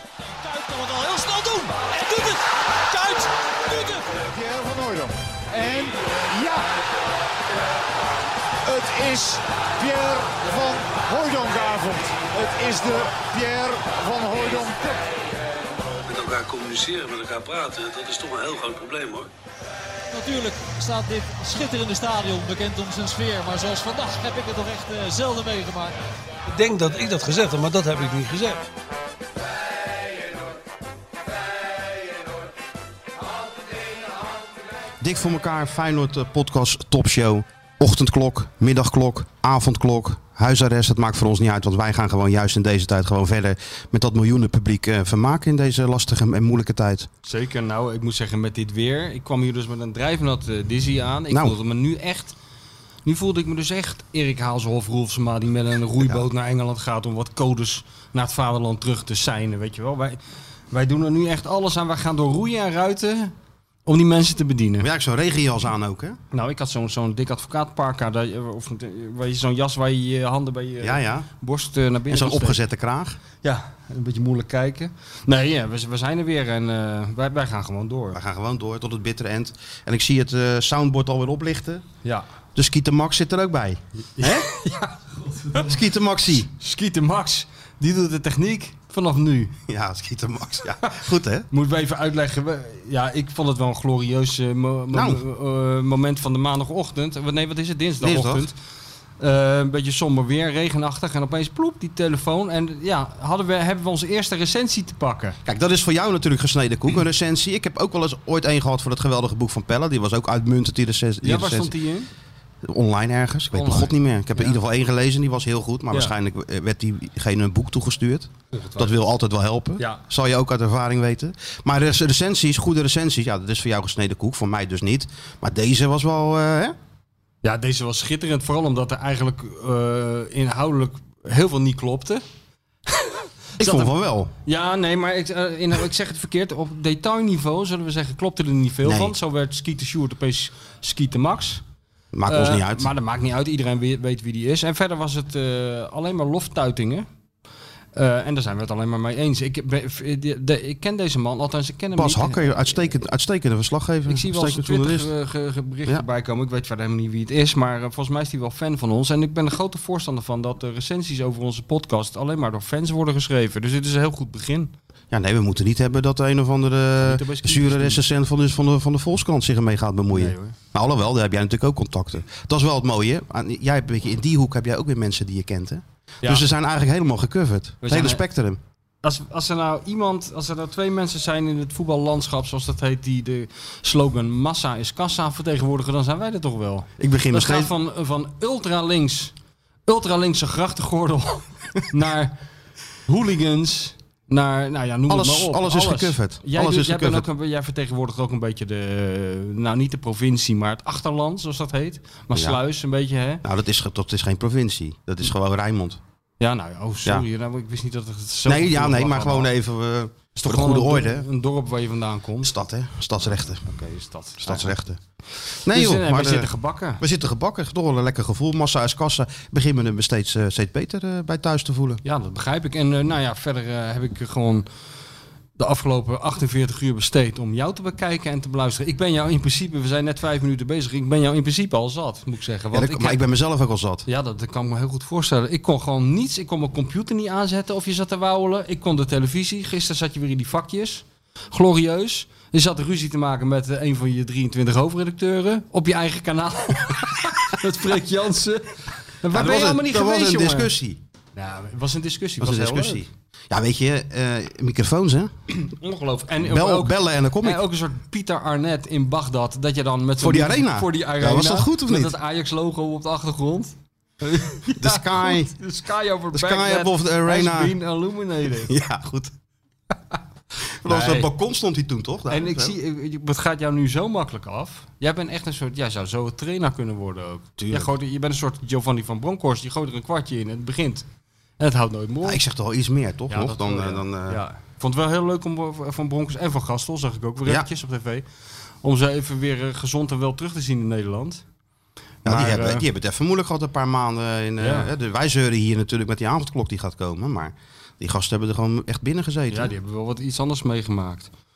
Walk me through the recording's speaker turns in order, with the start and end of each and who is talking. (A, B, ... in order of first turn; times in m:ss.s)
0:00.4-0:04.1 A
0:04.2-0:06.6 B
0:08.7-0:15.1 B
0:16.0-0:19.3 C
0:20.1-0:25.9 A
0:26.5-0:28.6 C
0:35.0-0:47.1 D
0:47.2-0:52.4 E
0:51.3-0:51.6 D
0:53.0-1:00.2 E
1:00.7-1:03.3 E
1:03.9-1:04.9 E
1:04.8-1:06.2 D
1:06.3-1:12.6 E
1:10.8-1:11.3 D
1:12.1-1:13.2 D
1:13.4-1:18.2 E
1:18.1-1:21.8 D
1:22.6-1:24.5 D
1:24.2-1:25.7 E
1:25.5-1:26.5 D
1:26.5-1:29.6 E
1:29.7-1:31.5 D
1:31.5-1:38.6 E
1:34.9-1:35.2 D
1:38.0-1:38.5 D
1:39.2-1:45.4 E
1:45.4-1:51.8 D
1:51.2-1:52.1 E
1:52.6-2:06.8 D
1:53.5-1:54.6 E
1:58.5-1:58.9 E
2:07.4-2:12.2 E
2:12.9-2:13.9 E
2:13.6-2:14.3 D
2:14.4-2:21.6 E
2:18.8-2:19.2 D
2:22.1-2:22.9 D
2:22.3-2:27.1 E
2:27.9-2:32.9 E
2:32.0-2:35.1 D
2:34.1-2:44.7 E
2:45.1-2:58.6 D
2:47.0-2:48.0 E
2:50.1-2:50.6 E
2:57.8-2:58.2 E
2:59.0-3:09.3 E
3:07.0-3:07.7 D
3:09.9-3:12.4 E
3:13.1-3:23.4 E
3:15.1-3:17.3 D
3:22.3-3:22.6 D
3:23.4-3:26.0 D
3:26.4-3:29.5 E
3:28.5-3:31.3 D
3:30.3-3:32.5 E
3:32.4-3:33.6 D
3:33.6-3:34.7 E
3:34.4-3:35.0 D
3:35.6-3:42.0 D
3:35.7-3:37.0 E
3:42.0-3:44.7 E
3:45.6-3:53.2 E
3:52.7-3:54.1 D
3:54.1-4:10.7 E
4:09.3-4:11.0 D
4:11.4-4:13.0 E
4:12.4-4:15.3 D
4:15.6-4:28.7 E
4:16.4-4:17.6 D
4:20.2-4:22.2 D
4:24.8-4:25.5 D
4:26.3-4:27.8 D
4:28.6-4:29.3 D
4:30.8-4:32.8 D
4:30.8-4:31.3 E
4:32.3-4:41.0 E
4:37.6-4:37.9 D
4:41.6-4:42.4 E
4:42.2-4:44.4 D
4:43.3-4:48.3 E
4:48.8-4:51.4 E
4:52.2-4:59.7 D
4:52.2-4:52.9 E
4:54.6-4:54.9 E
4:59.5-5:01.3 E